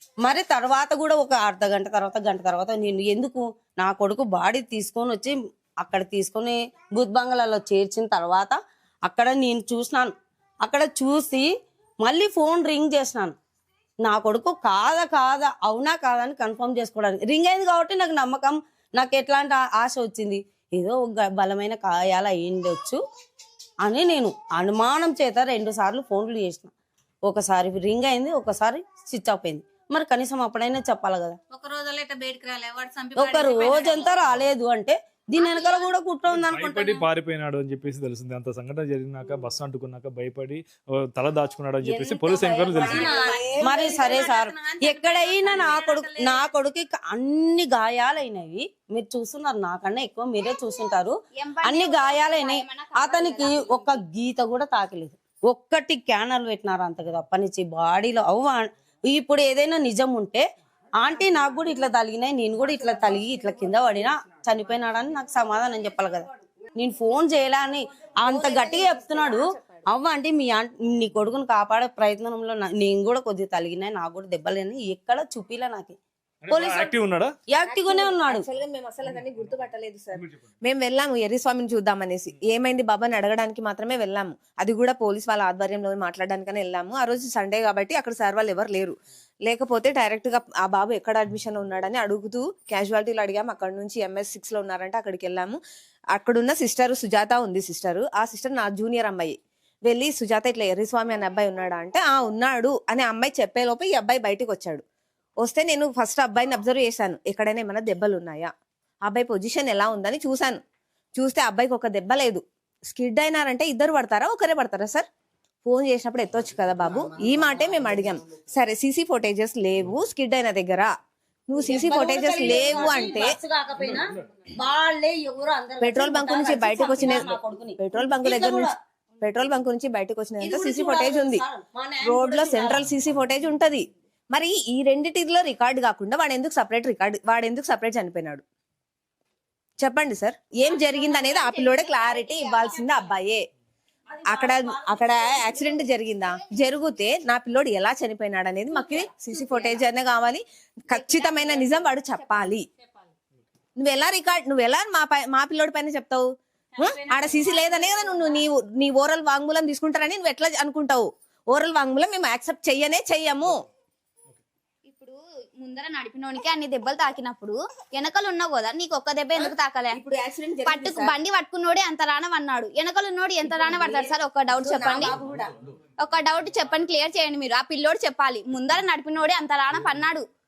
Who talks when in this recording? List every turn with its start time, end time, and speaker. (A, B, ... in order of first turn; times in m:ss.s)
0:00.2-0:11.5 A
0:12.0-0:13.4 A
0:14.0-0:23.0 A
0:23.8-0:26.7 A
0:27.2-0:31.4 A
0:31.5-0:34.1 B
0:33.2-0:37.0 A
0:36.3-0:43.0 C
0:41.8-1:00.4 A
0:42.8-0:44.0 D
0:42.9-0:46.3 B
0:51.4-0:54.0 E
1:01.0-1:16.0 A
1:08.2-1:09.8 D
1:16.5-1:17.3 C
1:16.5-1:17.0 A
1:17.5-1:18.4 A
1:17.6-1:35.6 D
1:36.1-1:39.4 D
1:39.9-1:44.8 D
1:45.4-1:48.5 D
1:49.1-1:50.6 D
1:51.1-1:55.0 D
1:55.6-2:00.9 D
2:01.5-2:03.4 D
2:01.6-2:08.7 A
2:05.8-2:11.4 D
2:10.4-2:12.8 A
2:12.0-2:18.4 D
2:19.8-2:23.4 D
2:20.6-2:23.0 E
2:24.2-2:32.7 D
2:30.9-2:31.6 E
2:33.8-2:43.6 D
2:37.1-2:38.3 B
2:44.9-2:50.0 E
2:49.4-2:51.2 D
2:50.6-2:55.1 E
2:53.7-2:55.5 D
2:56.0-3:00.2 E